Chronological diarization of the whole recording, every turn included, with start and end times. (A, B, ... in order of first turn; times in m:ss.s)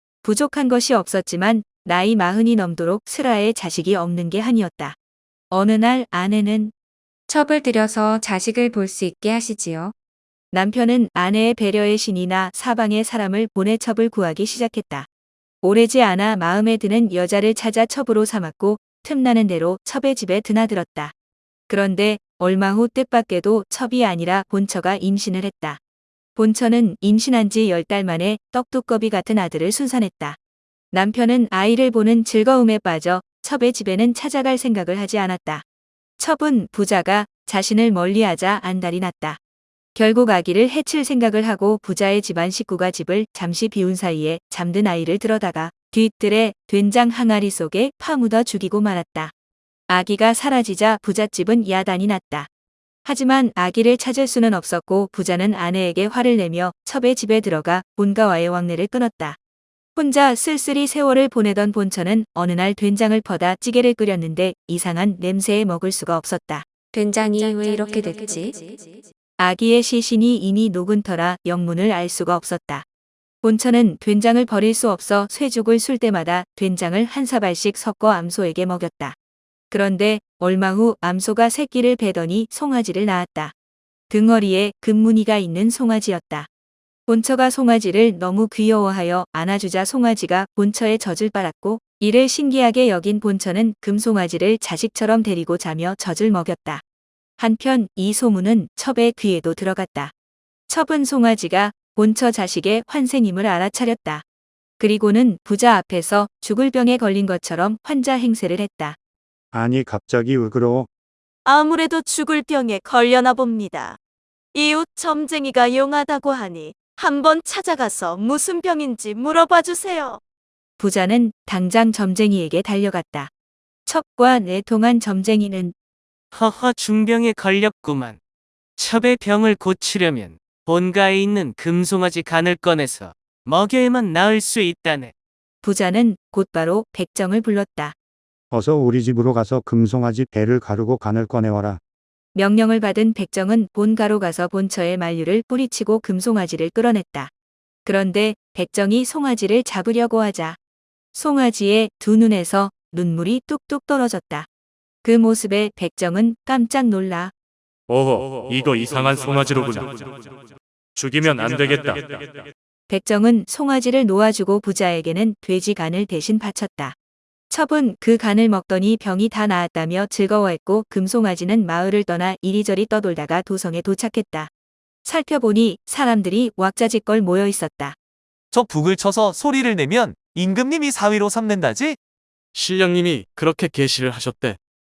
0:00.2-0:05.0 A
0:05.5-0:06.7 A
0:07.3-0:09.9 B
0:10.5-0:15.1 A
0:15.6-0:21.1 A
0:21.7-0:25.8 A
0:26.4-0:30.4 A
0:30.9-0:35.6 A
0:36.2-0:39.4 A
0:40.0-0:49.3 A
0:49.9-0:52.5 A
0:53.1-0:59.4 A
1:00.0-1:06.7 A
1:06.9-1:09.0 B
1:09.4-1:12.8 A
1:13.4-1:19.2 A
1:19.7-1:23.5 A
1:24.1-1:26.5 A
1:27.1-1:36.8 A
1:37.4-1:40.1 A
1:40.7-1:44.2 A
1:44.8-1:49.0 A
1:49.5-1:50.9 C
1:51.5-1:54.0 D
1:54.5-2:00.2 D
2:00.8-2:03.3 A
2:03.9-2:05.7 A
2:06.3-2:08.2 E
2:08.8-2:15.1 E
2:15.6-2:18.0 A
2:18.5-2:21.8 C
2:22.4-2:27.3 A
2:27.8-2:30.6 A
2:31.1-2:34.5 A
2:35.0-2:37.3 A
2:37.9-2:40.3 F
2:41.0-2:42.5 F
2:42.9-2:47.0 A
2:47.5-2:54.5 A
2:55.0-2:58.0 A
2:58.5-3:02.0 G
3:02.6-3:04.6 F